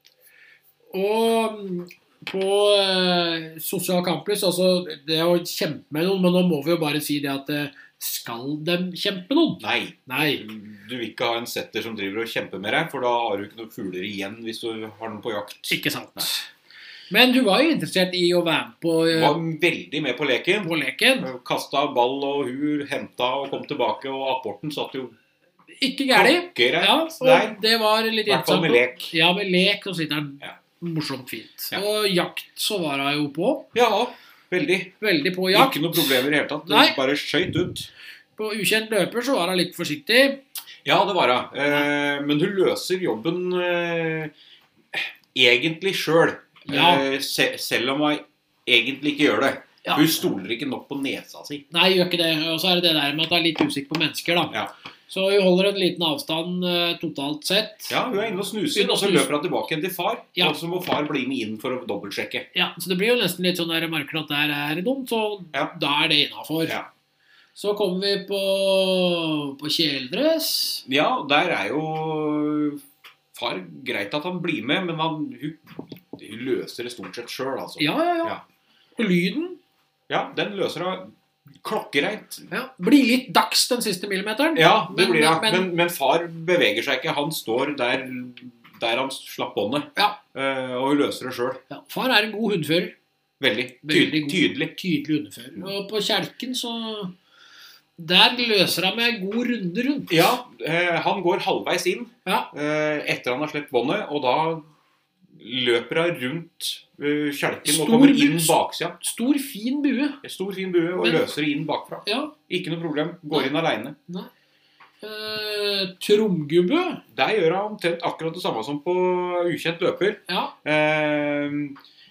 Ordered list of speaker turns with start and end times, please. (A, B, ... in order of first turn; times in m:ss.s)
0:00.9-0:10.4 A
0:09.6-0:16.3 B
0:15.7-0:16.5 A
0:17.1-0:19.4 A
0:19.1-0:25.2 B
0:20.6-0:21.3 A
0:25.8-0:33.7 A
0:26.1-0:27.6 B
0:28.2-0:29.1 B
0:33.7-0:34.9 B
0:35.0-0:37.0 A
0:35.5-0:37.9 B
0:38.4-0:40.4 A
0:40.8-0:44.3 B
0:44.9-0:51.6 B
0:46.7-0:47.0 A
0:49.8-0:50.1 A
0:51.7-0:54.5 A
0:55.1-0:59.3 A
0:57.9-1:02.5 B
1:02.5-1:06.8 A
1:07.6-1:10.8 A
1:10.8-1:12.8 B
1:13.3-1:18.4 B
1:17.8-1:18.4 A
1:19.0-1:19.6 A
1:20.1-1:22.5 B
1:22.5-1:25.7 A
1:24.5-1:31.6 B
1:31.7-1:32.9 A
1:33.4-1:34.7 B
1:33.8-1:37.1 A
1:38.0-1:40.2 A
1:40.1-1:44.6 B
1:45.3-1:49.0 B
1:47.6-1:50.2 A
1:50.2-1:54.0 B
1:52.0-1:52.3 A
1:55.0-1:57.0 A
1:57.1-2:01.8 B
2:00.3-2:00.5 A